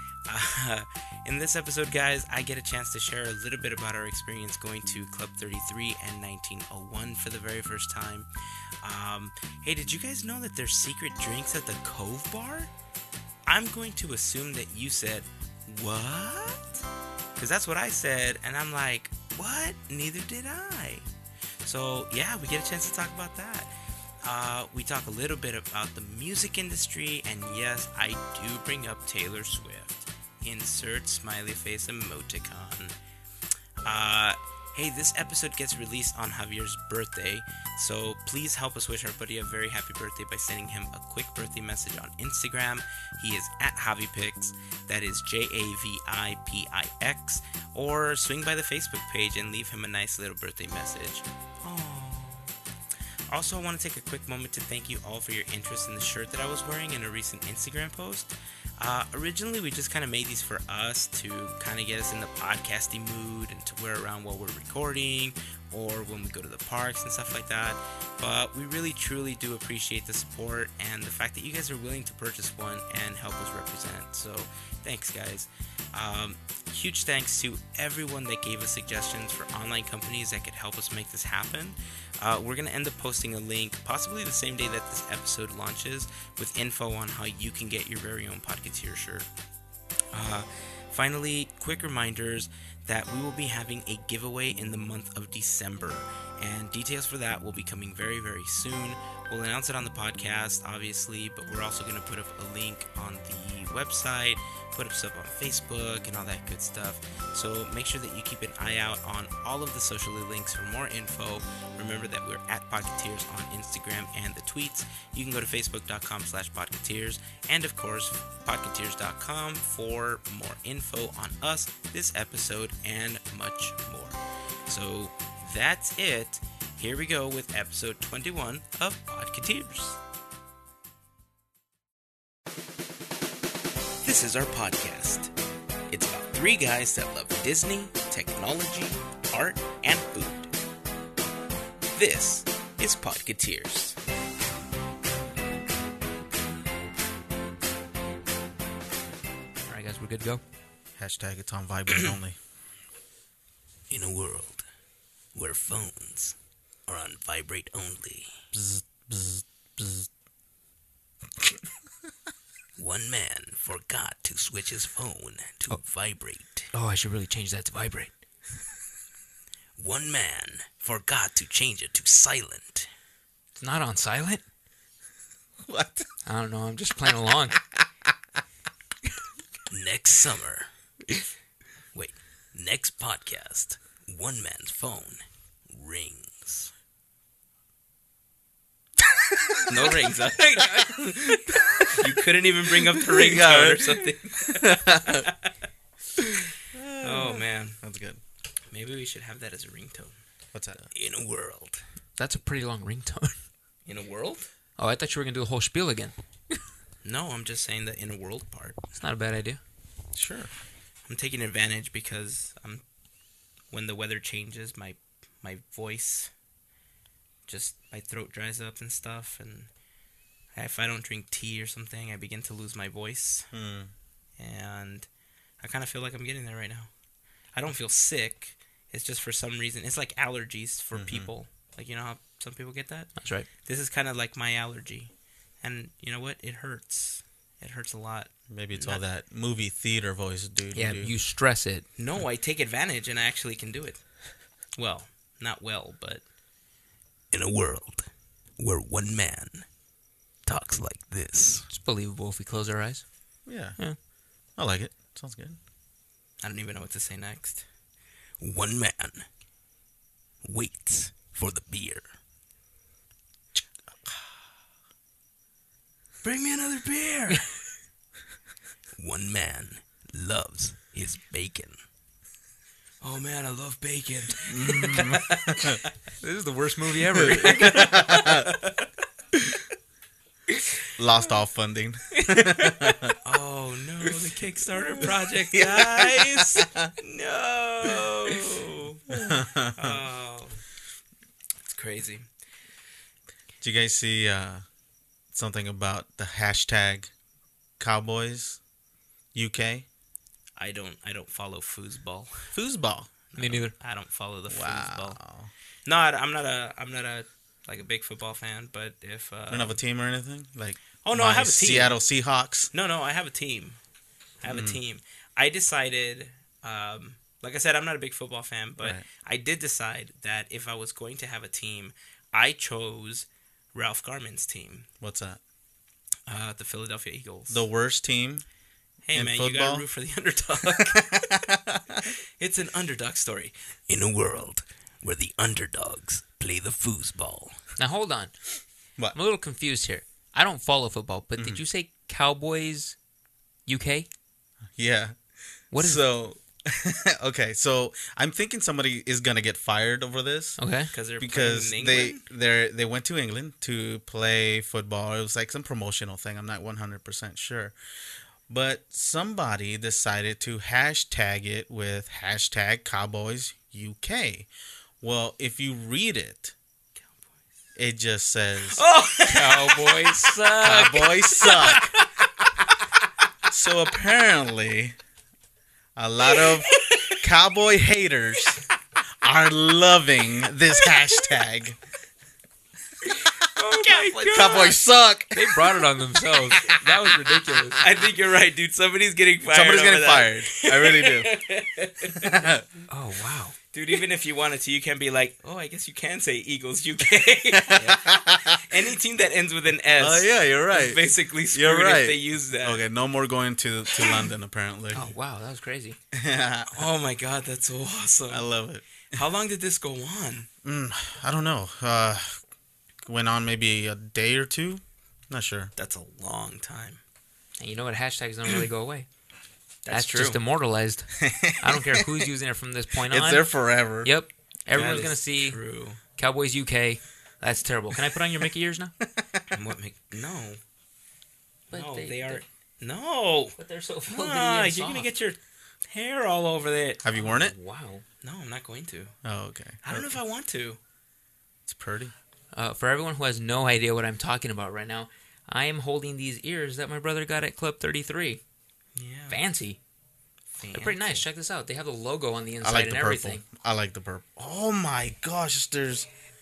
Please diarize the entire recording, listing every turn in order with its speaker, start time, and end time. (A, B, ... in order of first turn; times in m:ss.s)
0:00.3-0:08.3 A
0:08.8-0:12.7 A
0:13.5-0:16.8 A
0:17.4-0:21.1 A
0:21.6-0:23.7 A
0:24.2-0:33.0 A
0:33.8-0:52.5 A
0:53.3-1:29.3 A
1:30.1-2:10.0 A
2:14.0-2:15.3 A
2:15.9-2:20.5 A
2:21.9-2:24.0 A
2:29.7-2:30.4 B
2:31.0-2:32.4 C
2:33.9-2:34.7 A
2:35.3-2:38.4 A
2:38.5-2:40.1 C
2:42.8-2:46.7 A
2:46.7-2:48.1 B
2:49.8-2:52.9 A
2:53.6-2:54.4 B
2:55.6-2:56.1 C
2:56.3-2:57.6 B
2:59.7-3:00.7 A
3:01.9-3:06.7 A
3:09.6-3:10.1 C
3:09.6-3:11.1 A
3:10.9-3:12.1 C
3:11.9-3:15.5 A
3:13.0-3:15.3 C
3:16.7-3:18.2 C
3:17.0-3:17.8 A
3:18.7-3:20.2 A
3:20.5-3:20.8 C
3:20.8-3:21.9 A
3:22.2-3:23.4 B
3:23.9-3:24.5 A
3:24.8-3:26.6 B
3:27.0-3:29.0 A
3:29.0-3:29.6 B
3:30.1-3:30.5 C
3:31.1-3:32.9 A
3:33.7-3:36.3 A
3:37.5-3:39.7 A
3:40.5-3:43.5 A
3:43.5-3:43.9 C
3:44.4-3:45.1 A
3:45.6-3:46.9 A
3:47.6-3:59.0 A
3:51.0-3:51.3 C
3:53.2-3:53.5 B
3:58.5-4:01.1 C
4:00.7-4:01.9 B
4:02.0-4:04.2 A
4:04.8-4:06.2 A
4:07.3-4:09.7 A
4:10.5-4:11.7 A
4:11.7-4:13.1 B
4:13.5-4:13.8 C
4:14.5-4:15.6 C
4:16.4-4:17.7 A
4:18.4-4:19.3 A
4:20.4-4:22.1 A
4:26.2-4:27.6 A
4:29.0-4:31.8 A
4:33.0-4:35.7 A
4:34.5-4:35.8 C
4:36.2-4:38.0 B
4:37.2-4:38.5 C
4:37.4-4:38.9 A
4:41.0-4:43.2 C
4:43.2-4:49.2 A
4:44.8-4:46.9 C
4:49.1-4:50.0 C
4:49.8-4:50.6 A
4:51.6-4:52.3 A
4:53.6-4:54.6 C
4:55.3-4:57.1 C
4:57.8-4:58.6 C
4:59.3-4:59.9 C
5:00.6-5:02.6 A
5:02.5-5:03.1 C
5:03.3-5:05.2 A
5:03.4-5:03.7 B
5:04.5-5:05.5 C
5:05.9-5:09.8 A
5:09.5-5:12.7 C
5:11.0-5:12.0 A
5:12.7-5:13.8 A
5:14.4-5:24.9 A
5:14.4-5:14.8 C
5:18.8-5:19.0 C
5:25.0-5:25.4 C
5:26.3-5:27.6 A
5:27.5-5:28.4 C
5:29.0-5:31.5 A
5:29.1-5:29.8 C
5:30.8-5:32.0 C
5:32.0-5:37.6 A
5:37.8-5:43.0 B
5:43.7-5:44.1 B
5:44.8-5:50.6 C
5:45.7-5:46.0 B
5:50.6-5:50.9 B
5:50.9-5:52.3 A
5:51.2-5:57.8 C
5:58.5-6:04.5 C
6:05.0-6:06.5 C
6:07.0-6:07.4 A
6:07.8-6:08.8 C
6:08.7-6:12.0 A
6:09.3-6:11.5 B
6:10.6-6:11.9 C
6:13.5-6:15.0 C
6:16.0-6:18.6 C
6:16.3-6:17.2 A
6:19.2-6:21.8 C
6:23.0-6:24.8 A
6:23.7-6:27.8 B
6:24.3-6:25.9 C
6:26.5-6:27.0 C
6:26.6-6:32.4 A
6:29.5-6:31.4 C
6:32.1-6:32.7 C
6:32.9-6:33.6 B
6:33.6-6:42.8 A
6:37.6-6:38.6 C
6:40.0-6:45.1 C
6:44.0-6:44.2 A
6:44.9-6:46.0 B
6:46.1-6:46.9 C
6:46.7-6:48.5 A
6:48.3-6:49.1 C
6:49.1-6:50.5 A
6:50.6-6:52.4 C
6:53.0-6:55.7 C
6:55.8-6:57.0 A
6:57.6-6:59.1 B
6:59.8-7:00.4 A
6:59.9-7:08.9 B
7:01.2-7:02.3 C
7:03.1-7:04.1 C
7:04.7-7:05.1 C
7:04.7-7:06.0 A
7:09.1-7:09.4 C
7:09.5-7:10.6 A
7:11.7-7:12.4 B
7:11.7-7:13.6 A
7:13.6-7:15.1 B
7:14.1-7:17.0 A
7:17.0-7:17.6 C
7:17.2-7:18.0 B
7:18.2-7:19.2 A
7:19.2-7:20.2 C
7:19.8-7:20.8 A
7:21.7-7:22.1 C
7:22.5-7:28.4 B
7:29.0-7:29.4 A
7:29.3-7:29.8 B
7:30.5-7:31.2 A
7:30.7-7:33.4 B
7:32.6-7:36.1 C